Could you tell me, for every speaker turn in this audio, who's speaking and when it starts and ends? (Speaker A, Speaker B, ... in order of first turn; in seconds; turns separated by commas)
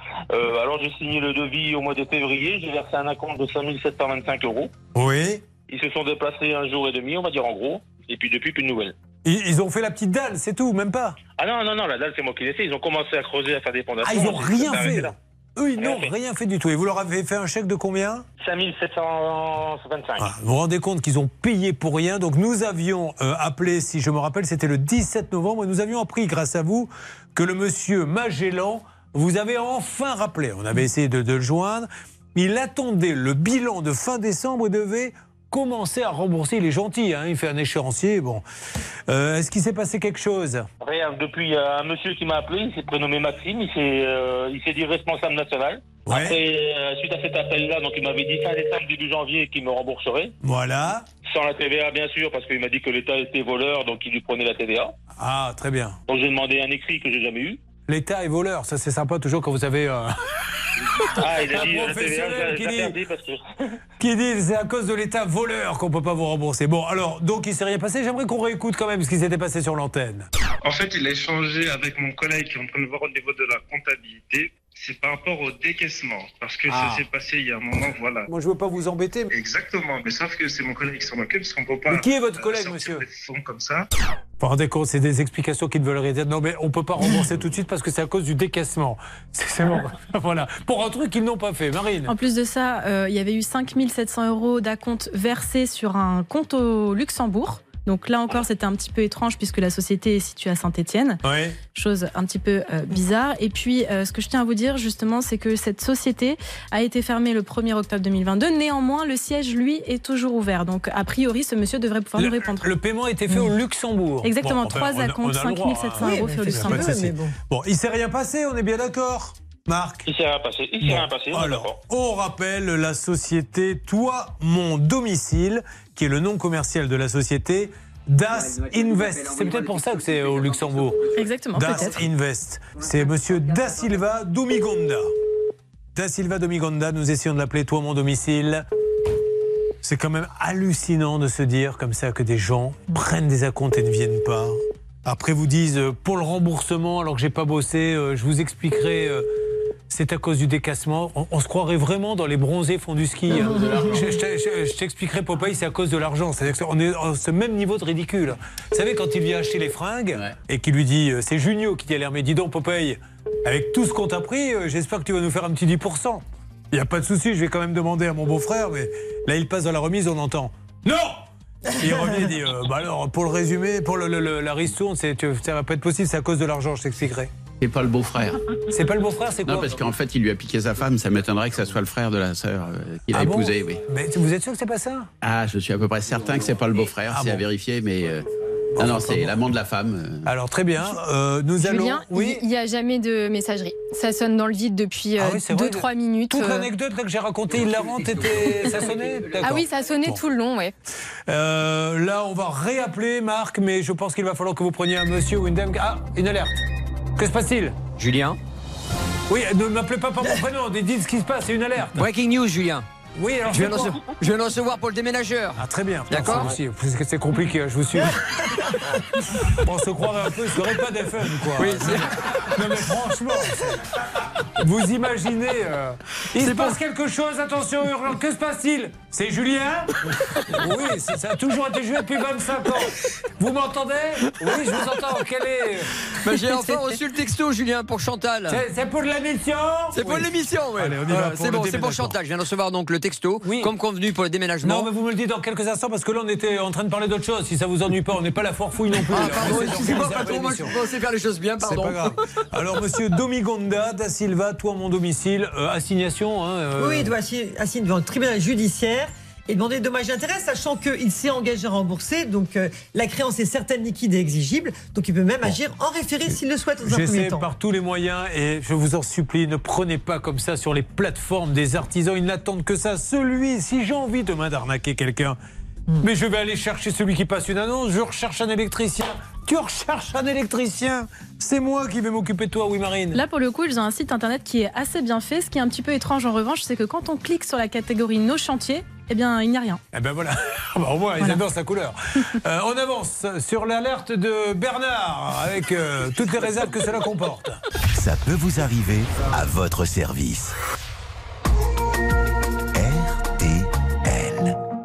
Speaker A: 0.3-4.7, Speaker B: 4.9-5.4, Speaker A: 5.7-8.9, Speaker B: 9.2-11.2, Speaker A: 11.4-15.1, Speaker B: 14.0-18.2, Speaker A: 15.8-16.1, Speaker A: 18.4-20.3, Speaker B: 20.2-38.4, Speaker B: 39.1-40.7, Speaker A: 40.8-50.3, Speaker B: 46.0-46.4, Speaker B: 50.4-51.0, Speaker A: 51.3-54.9, Speaker B: 55.2-56.0, Speaker A: 56.1-57.6, Speaker B: 57.9-60.1, Speaker B: 61.0-63.0, Speaker A: 61.2-63.4, Speaker B: 64.0-70.3, Speaker C: 70.6-78.3, Speaker B: 76.7-77.0, Speaker B: 78.3-79.3, Speaker C: 79.3-83.9, Speaker B: 81.9-83.0, Speaker B: 84.4-92.1, Speaker D: 92.0-101.2, Speaker B: 101.2-101.6, Speaker D: 101.7-112.7, Speaker B: 112.2-120.0, Speaker D: 114.2-117.0, Speaker E: 116.0-117.3, Speaker A: 120.0-121.8, Speaker B: 120.8-135.1, Speaker D: 131.1-132.1, Speaker B: 135.9-138.6, Speaker B: 139.8-149.3, Speaker B: 149.9-171.2, Speaker F: 153.3-154.1, Speaker E: 153.4-154.0, Speaker B: 171.8-177.3, Speaker E: 171.8-172.3, Speaker F: 177.6-178.4, Speaker B: 178.7-179.7, Speaker F: 179.4-183.8, Speaker B: 183.1-185.1, Speaker F: 185.2-188.2, Speaker B: 187.1-187.4, Speaker B: 188.7-189.4, Speaker F: 188.8-190.3, Speaker B: 190.3-192.4, Speaker G: 191.6-196.7, Speaker B: 195.2-200.2, Speaker G: 199.4-200.7, Speaker B: 201.3-206.6, Speaker B: 207.2-207.8, Speaker H: 208.0-208.4, Speaker B: 209.3-212.1, Speaker H: 211.9-212.8, Speaker B: 213.2-214.0, Speaker H: 213.5-216.5, Speaker B: 215.6-218.2, Speaker B: 219.5-223.8, Speaker H: 221.6-222.0, Speaker B: 224.6-235.9, Speaker H: 236.2-238.6, Speaker B: 238.5-242.2, Speaker H: 239.9-244.9, Speaker B: 243.4-243.7, Speaker B: 244.6-250.8, Speaker H: 249.1-252.0, Speaker B: 251.6-257.1, Speaker E: 256.8-267.5, Speaker B: 266.8-275.4, Speaker B: 276.0-283.2, Speaker D: 283.1-289.8, Speaker B: 289.9-297.6, Speaker I: 297.9-300.5, Speaker I: 302.7-304.6